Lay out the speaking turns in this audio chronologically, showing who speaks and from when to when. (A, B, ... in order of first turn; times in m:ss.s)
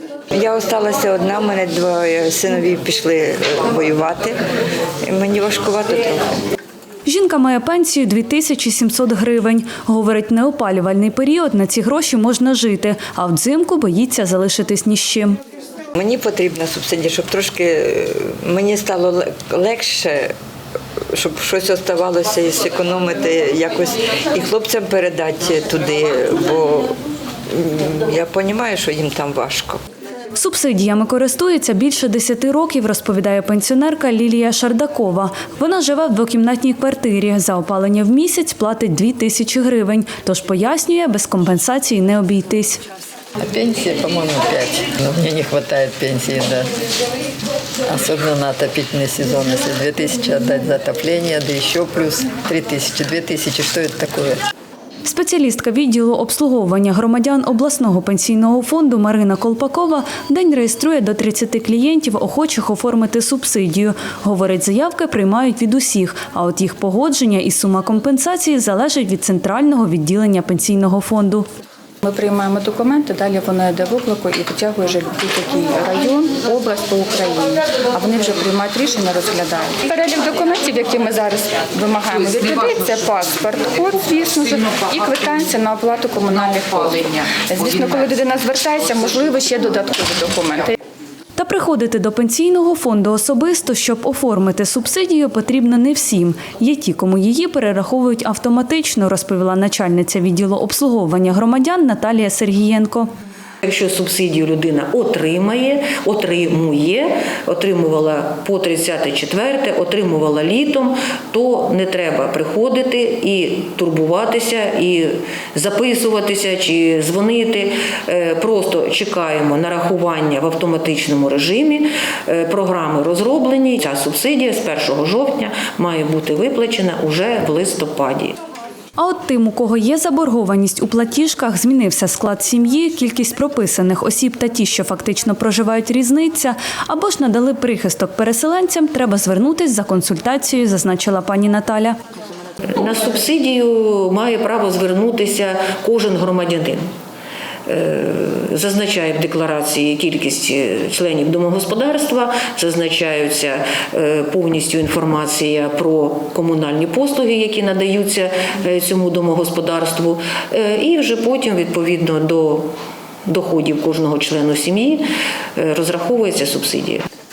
0:00.3-0:04.4 A
0:05.0-0:06.4 A
0:07.1-0:15.4 B
0:16.0-0:20.3 A
0:21.1-0:27.0 A
0:27.5-0:29.8 A
0:30.4-0:42.8 B
0:43.4-0:46.7 C
0:47.9-0:54.4 C
0:55.0-1:11.5 B
1:12.0-1:30.8 D
1:31.4-1:43.1 B
1:43.6-2:08.4 E
2:09.0-2:22.0 B
2:22.6-2:26.8 E
2:27.7-2:42.7 E
2:43.3-2:45.1 E
2:45.6-2:47.0 E